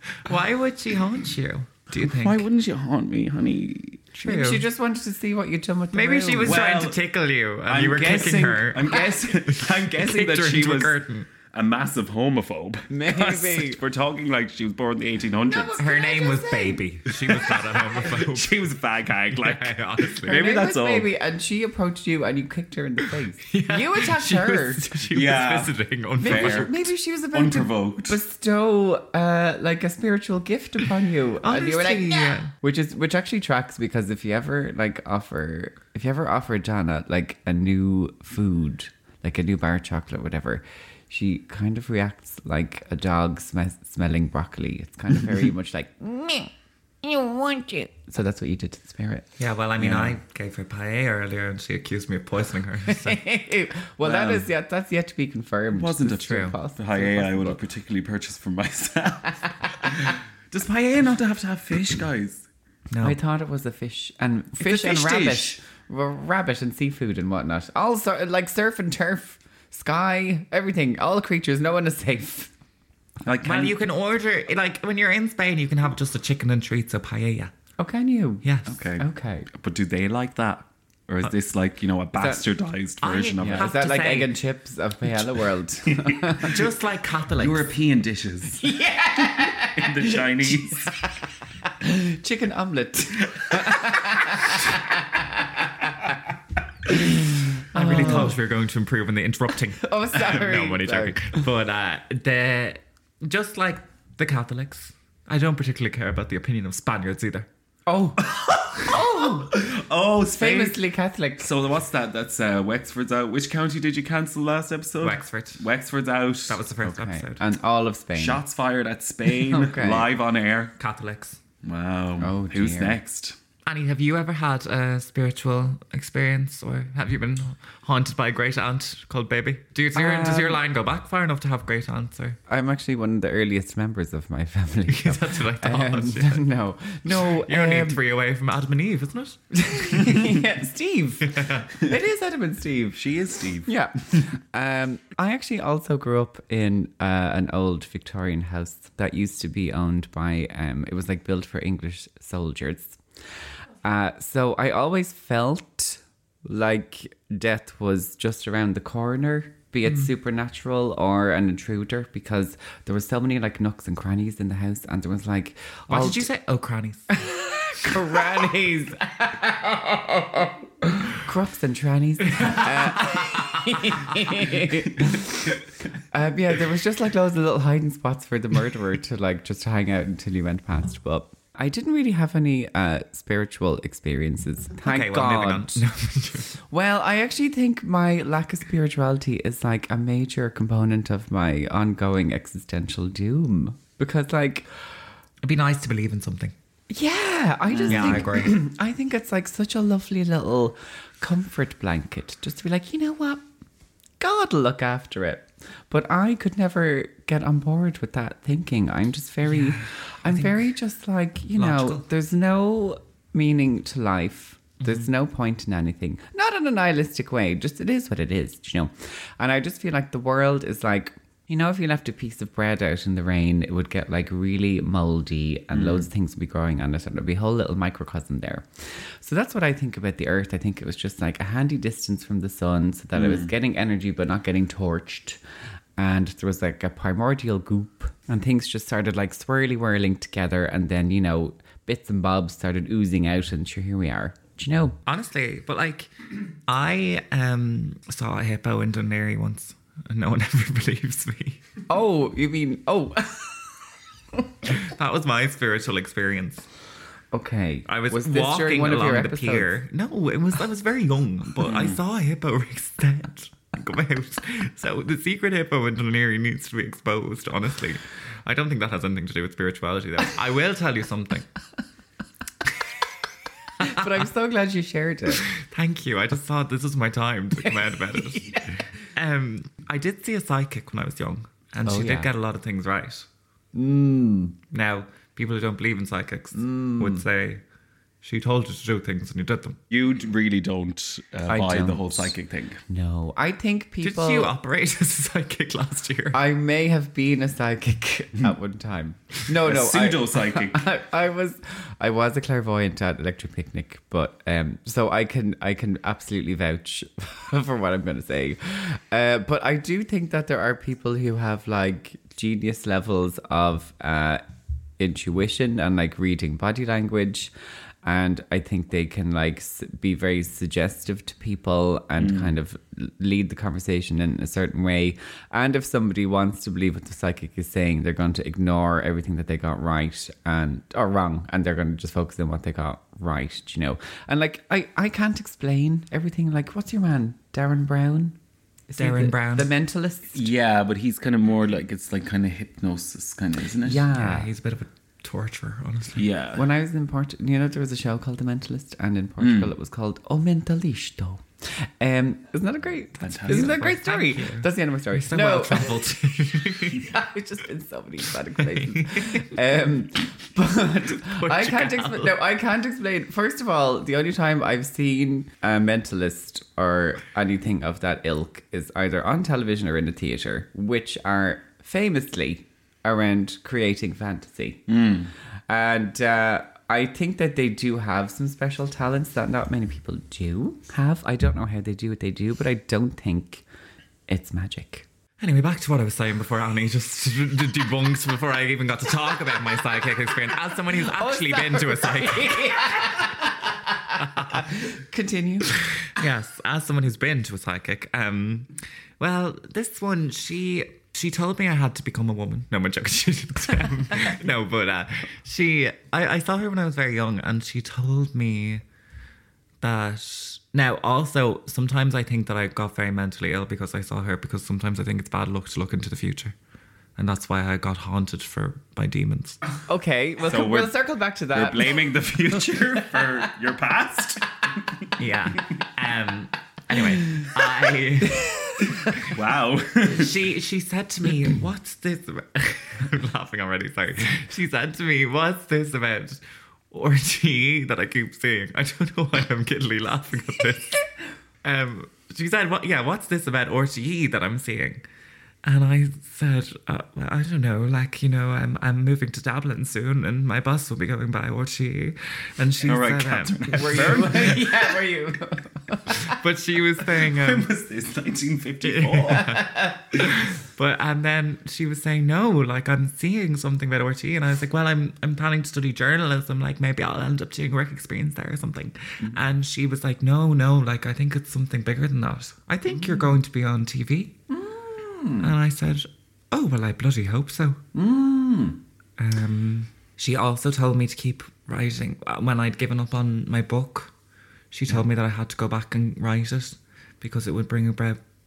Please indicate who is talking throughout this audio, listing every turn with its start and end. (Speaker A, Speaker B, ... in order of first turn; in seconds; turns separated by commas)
Speaker A: 0.2-2.5, Speaker B: 2.0-4.0, Speaker A: 4.2-4.6, Speaker C: 4.2-6.7, Speaker A: 5.9-11.3, Speaker B: 6.4-7.0, Speaker B: 7.7-11.0, Speaker B: 11.5-15.8, Speaker C: 12.9-13.8, Speaker C: 15.5-16.8, Speaker A: 15.8-18.6, Speaker B: 17.2-21.1, Speaker A: 19.3-20.4, Speaker C: 20.2-24.9, Speaker A: 23.4-26.7, Speaker B: 25.1-28.2, Speaker C: 26.2-49.3, Speaker A: 31.4-32.5, Speaker A: 49.4-53.2, Speaker B: 49.8-50.1, Speaker C: 52.9-57.6, Speaker B: 54.0-54.5, Speaker B: 55.7-62.5, Speaker A: 56.2-56.5, Speaker A: 62.9-63.1, Speaker C: 63.0-72.5, Speaker B: 64.6-65.6, Speaker B: 73.2-73.8, Speaker A: 73.4-77.5, Speaker C: 77.8-79.5, Speaker A: 78.4-78.8, Speaker B: 78.7-83.7, Speaker C: 82.2-82.4, Speaker A: 83.0-84.3, Speaker C: 83.4-86.6, Speaker B: 85.8-86.4, Speaker A: 86.3-87.7, Speaker B: 87.4-88.7, Speaker C: 88.6-96.1, Speaker B: 89.3-91.0, Speaker B: 93.3-93.9, Speaker C: 97.7-98.3, Speaker A: 97.7-107.5, Speaker C: 99.8-101.4, Speaker C: 107.9-109.6, Speaker B: 108.2-110.8, Speaker C: 110.3-111.5, Speaker B: 111.4-116.6, Speaker A: 115.0-115.6, Speaker A: 116.5-117.4, Speaker C: 116.8-118.4, Speaker B: 118.1-120.7, Speaker C: 119.2-120.1, Speaker A: 120.8-121.4, Speaker B: 121.6-123.3, Speaker C: 122.2-123.0, Speaker A: 123.7-132.4, Speaker C: 129.9-130.6, Speaker C: 132.5-138.0, Speaker A: 134.9-136.4, Speaker A: 137.1-140.2, Speaker C: 139.6-143.0, Speaker A: 141.2-141.7, Speaker B: 142.9-144.2, Speaker C: 143.6-153.0, Speaker C: 153.8-166.3, Speaker A: 165.9-167.3, Speaker C: 167.1-185.8, Speaker A: 184.8-186.5, Speaker C: 186.5-194.9, Speaker A: 195.4-196.5, Speaker C: 196.9-203.4, Speaker B: 197.9-198.2, Speaker A: 197.9-198.6, Speaker C: 204.2-235.4, Speaker A: 209.5-210.6, Speaker A: 211.6-212.0, Speaker B: 225.7-226.1, Speaker B: 233.1-233.5, Speaker C: 236.0-245.0, Speaker A: 245.1-246.1, Speaker A: 246.7-251.6, Speaker C: 251.9-253.8, Speaker A: 254.7-256.7, Speaker C: 257.3-259.8, Speaker A: 257.9-271.5, Speaker B: 261.6-262.0, Speaker C: 273.8-275.4, Speaker A: 275.4-283.3, Speaker C: 277.6-278.7, Speaker C: 281.9-282.3, Speaker C: 283.7-284.6, Speaker A: 284.7-287.6, Speaker C: 286.5-287.2, Speaker A: 288.2-289.8, Speaker B: 289.9-292.8, Speaker C: 291.5-292.3, Speaker C: 292.9-294.5, Speaker A: 294.0-296.4, Speaker C: 296.3-314.4, Speaker B: 299.5-300.9, Speaker C: 315.0-317.5, Speaker C: 318.0-338.4, Speaker B: 322.2-322.5, Speaker C: 338.9-340.5, Speaker A: 338.9-339.7, Speaker B: 340.3-344.0, Speaker C: 343.8-344.5, Speaker A: 344.1-346.3, Speaker B: 346.2-346.6, Speaker C: 346.5-356.0, Speaker B: 349.4-349.7, Speaker B: 353.2-353.8, Speaker A: 353.4-357.1, Speaker C: 356.9-374.9, Speaker A: 358.7-359.5, Speaker A: 361.2-362.4, Speaker B: 374.9-375.3, Speaker C: 375.7-383.6, Speaker C: 384.3-385.1, Speaker A: 385.4-393.0, Speaker C: 390.9-395.7, Speaker A: 394.2-394.6, Speaker A: 396.0-408.8, Speaker A: 409.8-416.5, Speaker A: 417.1-419.6, Speaker C: 419.9-423.5, Speaker B: 420.4-425.1, Speaker A: 425.2-428.5, Speaker C: 428.4-428.9, Speaker B: 429.1-430.4, Speaker A: 430.1-441.0, Speaker A: 441.6-445.0, Speaker A: 445.6-454.2, Speaker B: 452.8-454.9, Speaker C: 453.7-456.4, Speaker A: 456.1-457.7, Speaker B: 457.1-459.6, Speaker A: 458.8-474.3, Speaker C: 459.4-460.0, Speaker C: 472.9-473.3, Speaker C: 474.5-475.5, Speaker A: 475.4-477.8, Speaker C: 477.9-478.8, Speaker A: 479.2-484.1, Speaker A: 484.7-488.2